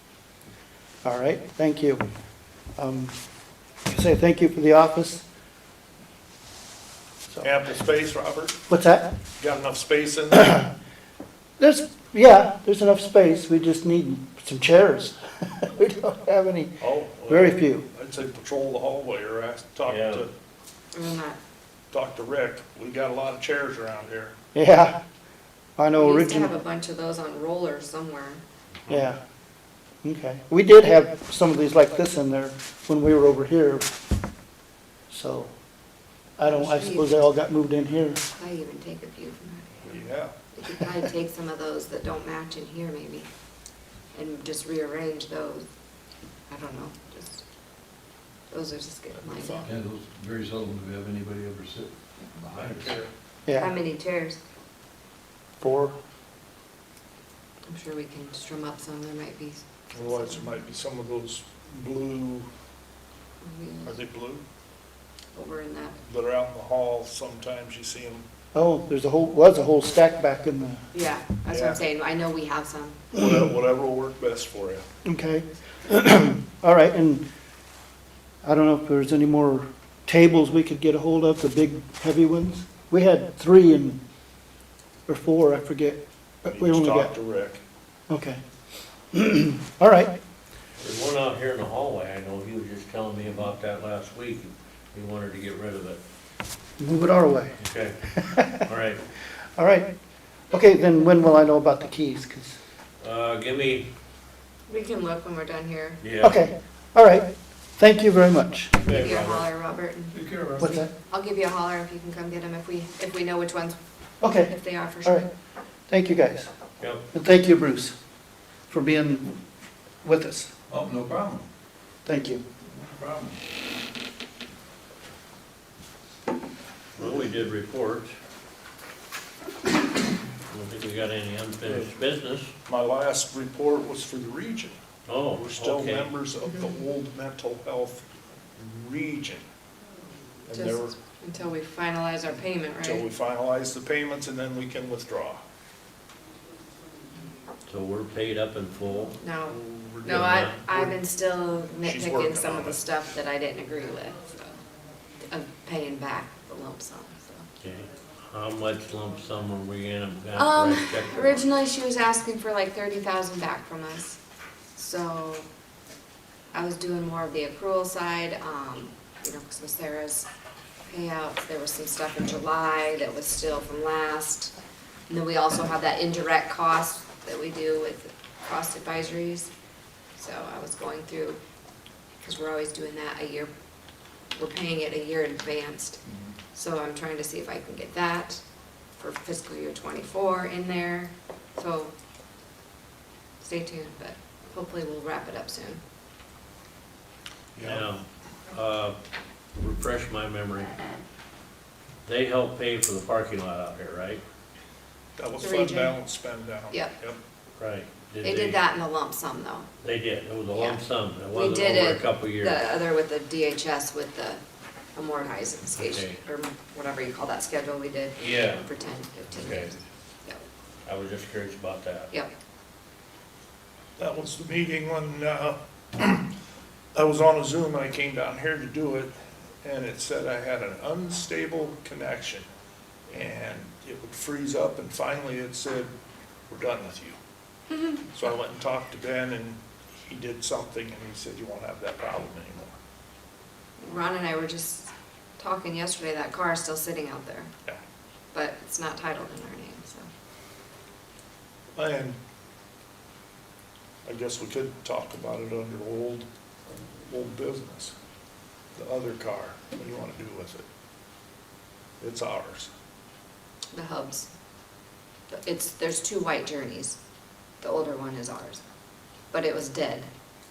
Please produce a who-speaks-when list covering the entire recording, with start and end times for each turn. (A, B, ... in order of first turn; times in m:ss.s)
0:01.0-0:02.0 A
0:02.8-0:03.1 A
0:03.9-0:05.2 A
0:07.4-0:08.6 B
0:08.7-0:09.1 A
0:09.4-0:10.6 B
0:10.3-0:10.6 A
0:11.6-0:17.8 A
0:16.8-0:17.6 C
0:17.9-0:20.3 B
0:19.8-0:20.3 C
0:20.9-0:21.4 D
0:21.9-0:24.3 B
0:24.5-0:25.0 A
0:25.8-0:26.5 A
0:25.9-0:28.4 D
0:28.9-0:29.2 A
0:30.0-0:33.9 A
0:35.1-0:35.5 A
0:36.4-0:38.2 A
0:36.4-0:37.2 D
0:38.3-0:39.8 D
0:39.8-0:40.3 B
0:40.5-0:43.3 D
0:44.1-0:45.6 D
0:46.5-0:47.4 D
0:48.5-0:49.7 D
0:49.1-0:49.7 B
0:49.6-0:53.0 E
0:52.6-0:53.0 B
0:53.4-0:53.7 A
0:53.5-0:54.4 D
0:55.6-0:55.9 A
0:57.6-1:00.6 D
0:59.9-1:02.5 B
1:03.4-1:04.0 D
1:03.8-1:04.4 B
1:05.3-1:06.0 D
1:06.0-1:08.2 B
1:08.5-1:10.8 A
1:10.9-1:13.1 D
1:11.5-1:11.8 B
1:13.1-1:14.8 B
1:15.0-1:17.2 A
1:18.4-1:24.0 A
1:25.1-1:27.1 A
1:26.5-1:27.6 B
1:28.1-1:28.4 A
1:29.1-1:30.2 A
1:30.8-1:36.0 C
1:36.8-1:37.6 A
1:37.6-1:39.0 C
1:38.1-1:38.7 A
1:39.5-1:39.9 A
1:40.5-1:42.6 A
1:43.0-1:43.9 C
1:44.7-1:46.0 D
1:46.0-1:46.4 C
1:46.2-1:48.7 A
1:48.8-1:49.4 C
1:48.8-1:55.2 D
1:50.1-1:50.6 E
1:50.6-1:50.9 A
1:54.2-1:55.3 A
1:55.9-1:56.5 A
1:57.1-1:57.9 A
1:58.7-1:59.4 A
2:00.0-2:00.5 A
2:00.7-2:01.4 E
2:02.0-2:02.4 A
2:02.7-2:03.4 E
2:07.0-2:08.1 C
2:10.5-2:12.5 C
2:12.7-2:14.8 B
2:15.0-2:16.1 C
2:15.4-2:18.0 B
2:18.6-2:19.4 B
2:20.5-2:20.9 B
2:20.5-2:23.0 D
2:22.8-2:25.4 B
2:27.7-2:29.2 C
2:29.2-2:34.6 D
2:29.4-2:30.9 B
2:30.1-2:30.6 C
2:31.8-2:32.8 B
2:35.3-2:37.4 D
2:37.6-2:41.4 C
2:40.3-2:44.2 D
2:44.8-2:45.4 D
2:46.5-2:50.3 D
2:50.9-2:54.5 D
2:55.1-2:59.5 D
3:00.2-3:01.4 D
3:02.2-3:03.5 D
3:04.3-3:06.0 D
3:06.5-3:08.4 D
3:09.0-3:11.9 D
3:13.4-3:15.8 D
3:17.6-3:17.9 B
3:17.6-3:19.0 C
3:19.5-3:20.8 C
3:22.0-3:24.2 C
3:25.2-3:27.2 B
3:25.4-3:26.0 D
3:27.6-3:28.6 C
3:28.2-3:29.7 D
3:29.8-3:32.6 C
3:30.5-3:30.8 D
3:31.3-3:34.4 D
3:34.9-3:40.4 D
3:35.8-3:36.2 C
3:38.2-3:38.7 C
3:39.3-3:39.7 C
3:40.8-3:42.1 C
3:44.0-3:46.2 B
3:46.9-3:52.4 B
3:53.1-3:55.9 B
3:56.5-3:57.2 B
3:57.7-3:58.0 D
3:58.1-4:02.7 B
4:03.8-4:07.5 D
4:08.3-4:10.1 D
4:11.8-4:12.2 B
4:14.0-4:17.9 B
4:18.8-4:20.6 B
4:22.0-4:22.7 B
4:23.7-4:24.3 D
4:25.3-4:27.0 D
4:27.6-4:28.6 D
4:29.3-4:30.1 D